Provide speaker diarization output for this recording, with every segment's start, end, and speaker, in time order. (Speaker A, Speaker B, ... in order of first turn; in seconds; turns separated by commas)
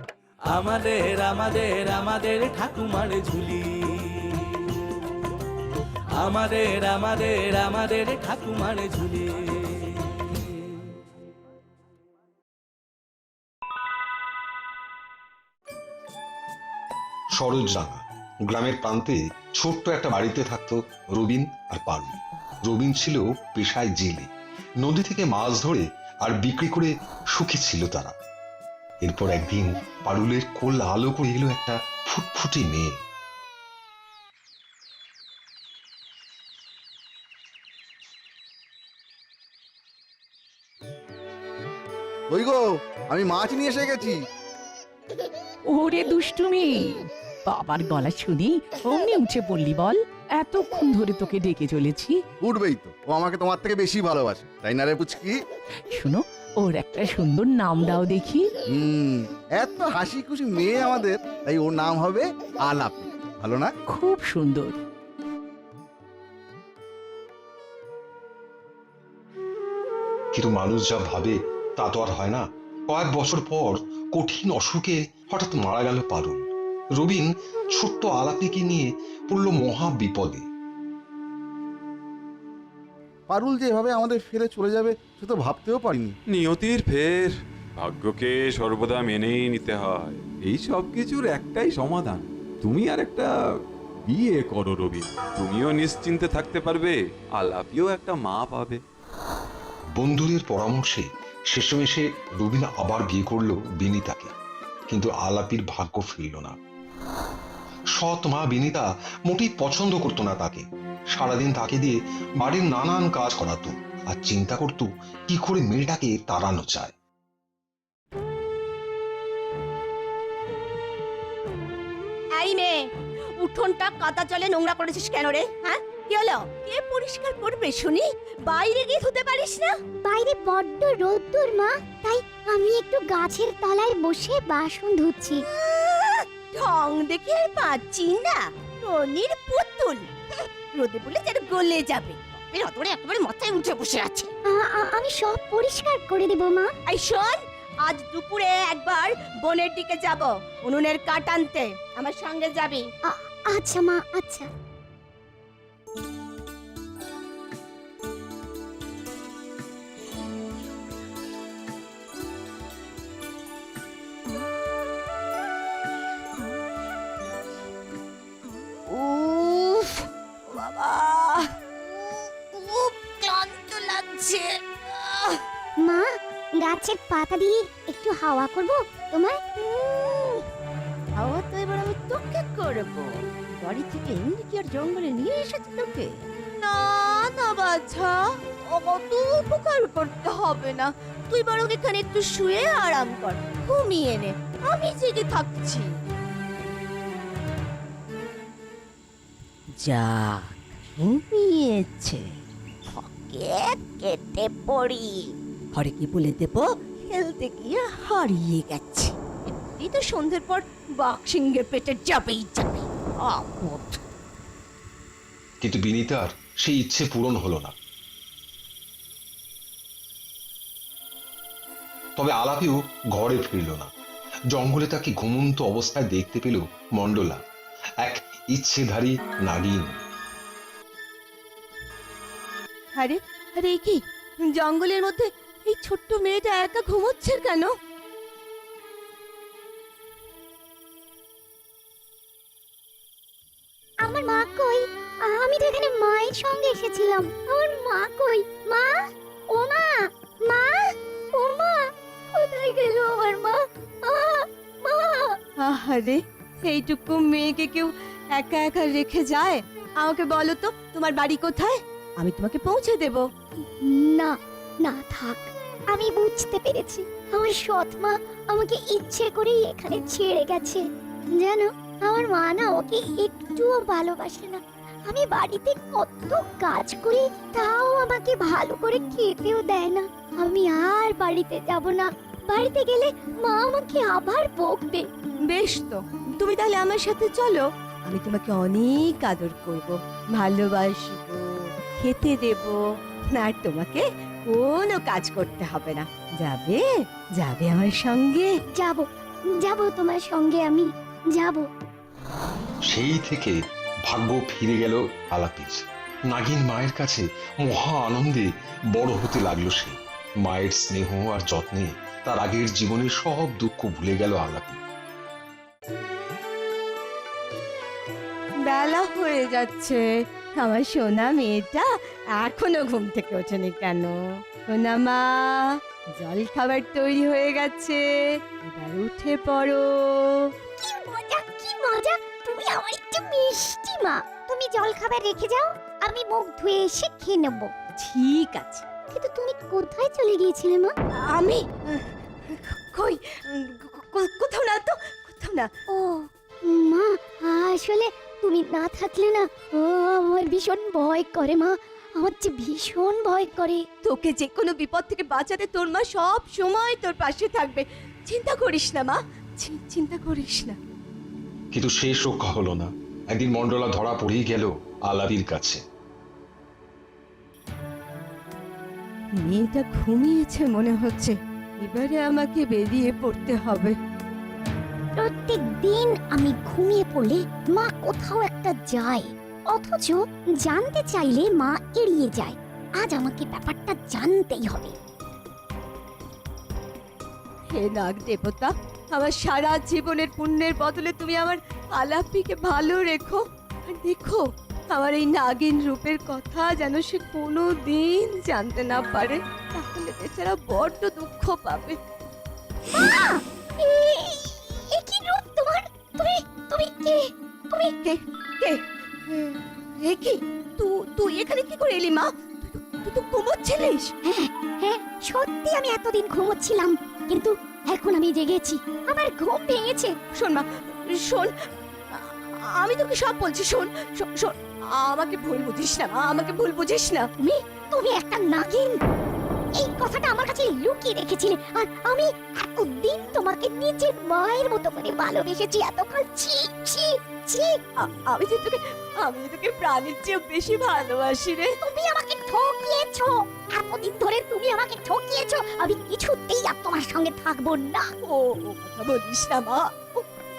Speaker A: 0.5-4.7, Speaker A: 6.2-10.3, Speaker B: 17.4-24.3, Speaker B: 24.8-28.1, Speaker B: 29.0-33.0, Speaker C: 42.3-44.2, Speaker D: 45.7-52.2, Speaker C: 52.4-55.4, Speaker D: 55.9-58.5, Speaker C: 58.7-63.7, Speaker D: 63.9-64.8, Speaker B: 70.3-80.5, Speaker C: 83.3-86.2, Speaker E: 86.3-93.3, Speaker E: 94.1-98.8, Speaker B: 100.0-104.3, Speaker B: 104.9-106.5, Speaker B: 107.9-116.9, Speaker F: 122.3-129.8, Speaker G: 130.0-135.4, Speaker F: 135.5-140.1, Speaker F: 140.8-144.3, Speaker G: 144.5-146.7, Speaker F: 146.9-152.9, Speaker G: 153.1-154.5, Speaker F: 168.9-171.5, Speaker F: 172.0-175.3, Speaker G: 175.8-179.4, Speaker F: 179.6-180.4, Speaker F: 181.2-195.9, Speaker F: 199.8-202.2, Speaker F: 202.9-214.0, Speaker B: 215.6-217.8, Speaker B: 222.2-223.9, Speaker B: 224.5-227.4, Speaker B: 228.0-230.0, Speaker F: 233.0-237.7, Speaker G: 244.0-249.0, Speaker G: 249.5-255.4, Speaker F: 255.6-263.3, Speaker G: 263.8-270.8, Speaker G: 271.4-285.1, Speaker F: 285.5-291.4, Speaker F: 292.0-292.8, Speaker F: 293.3-296.9, Speaker F: 297.4-298.5, Speaker G: 298.8-299.1, Speaker G: 299.6-301.7, Speaker B: 302.9-314.8, Speaker F: 318.7-320.0, Speaker F: 320.6-321.9, Speaker F: 322.4-325.5, Speaker F: 326.2-328.1, Speaker F: 328.6-330.4, Speaker G: 330.8-337.7, Speaker F: 338.0-338.8, Speaker G: 339.1-340.9, Speaker F: 341.1-345.7, Speaker G: 345.9-353.8, Speaker F: 354.0-360.8, Speaker B: 361.7-365.8, Speaker F: 369.4-373.9, Speaker G: 375.2-385.0, Speaker F: 387.7-402.0, Speaker G: 402.9-407.9, Speaker F: 408.0-414.1, Speaker G: 414.2-420.1, Speaker F: 420.4-421.5, Speaker F: 422.1-427.3, Speaker G: 427.4-429.0, Speaker G: 429.8-437.8, Speaker F: 438.0-441.7, Speaker G: 441.8-448.1, Speaker F: 448.2-450.3